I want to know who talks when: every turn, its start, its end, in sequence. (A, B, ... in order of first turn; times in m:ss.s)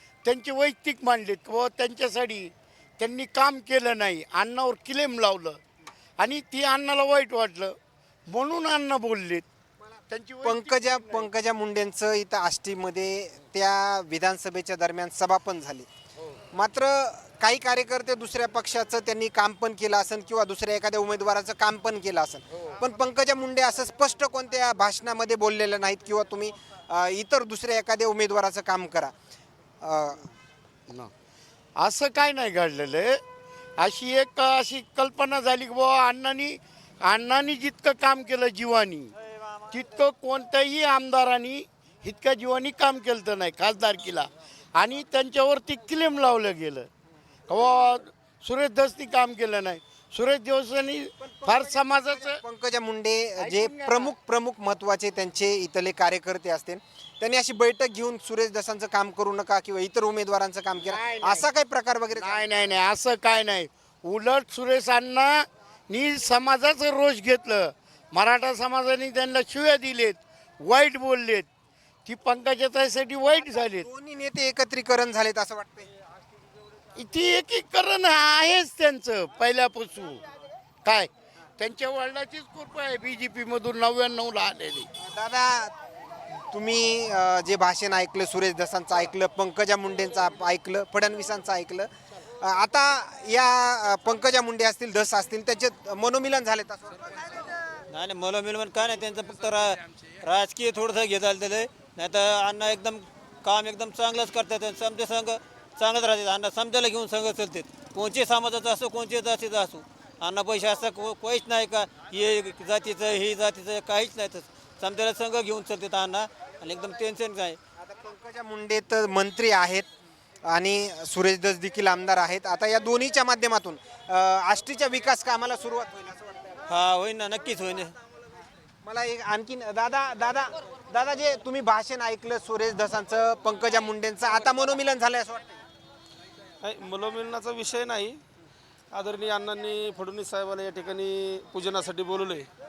0:00.2-0:05.6 A
0:06.2-0:07.8 A
0:08.3-0:09.5 A
0:10.1-0:11.3 A
0:10.4-0:15.9 B
0:16.5-0:29.1 B
0:29.8-0:30.3 B
0:31.8-0:33.2 A
0:33.8-0:39.1 A
0:39.7-0:46.9 A
0:47.5-0:52.4 A
0:51.4-1:02.4 B
0:53.4-0:54.1 A
1:00.9-1:01.5 A
1:02.2-1:11.5 A
1:12.0-1:13.9 A
1:13.4-1:15.9 B
1:17.0-1:20.3 A
1:20.8-1:24.9 A
1:25.0-1:25.7 B
1:26.5-1:37.5 B
1:37.9-1:57.6 C
1:57.8-1:59.9 B
2:00.5-2:06.6 B
2:06.7-2:07.9 C
2:08.8-2:15.6 B
2:16.6-2:18.2 D
2:18.9-2:22.5 D